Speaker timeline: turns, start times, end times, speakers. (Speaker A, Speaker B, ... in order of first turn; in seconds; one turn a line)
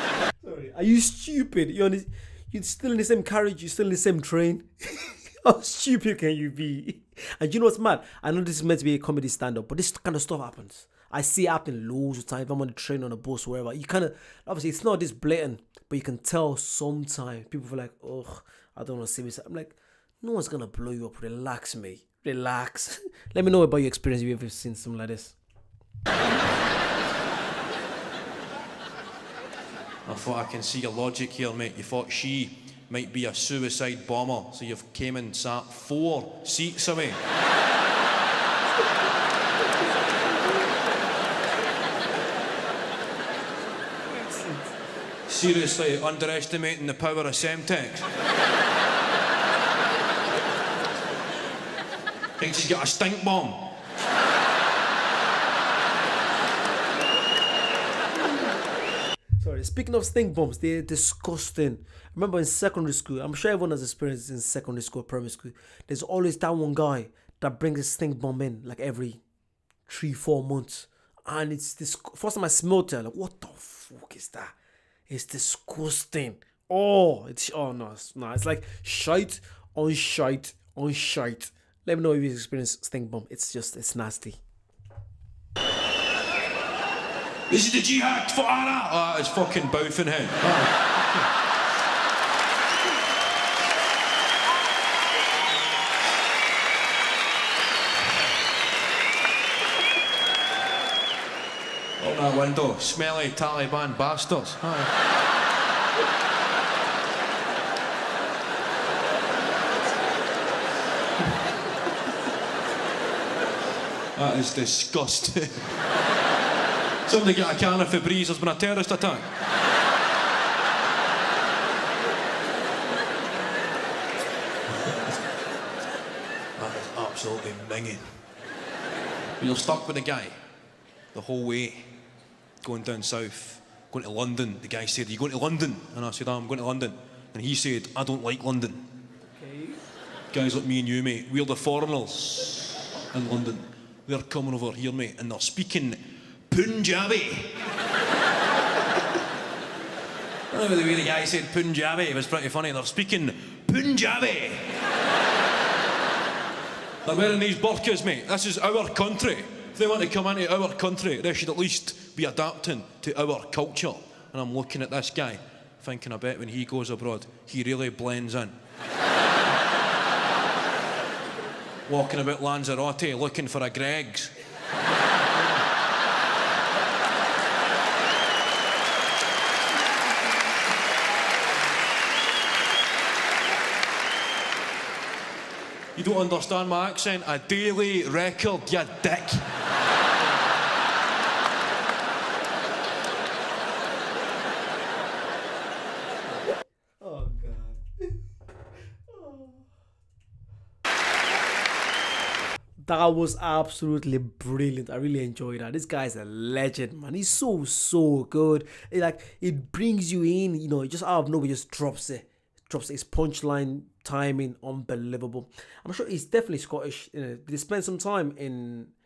Speaker A: 0.4-25.4
Speaker B: 30.1-37.2
Speaker A: 44.1-44.6
Speaker B: 45.3-48.1
Speaker B: 52.4-53.7
Speaker A: 59.4-69.2
Speaker A: 69.9-74.5
Speaker A: 75.1-84.4
Speaker B: 87.5-90.7
Speaker A: 91.0-91.2
Speaker B: 102.0-104.9
Speaker B: 114.2-115.7
Speaker B: 117.0-119.3
Speaker B: 126.6-128.1
Speaker B: 129.4-130.3
Speaker B: 131.1-131.8
Speaker B: 132.6-138.8
Speaker A: 139.3-139.8
Speaker B: 140.3-147.6
Speaker B: 150.5-154.7
Speaker B: 157.0-168.5
Speaker B: 171.9-174.3
Speaker B: 185.9-189.5
Speaker A: 197.0-198.1
Speaker A: 199.1-199.6
Speaker A: 202.8-218.9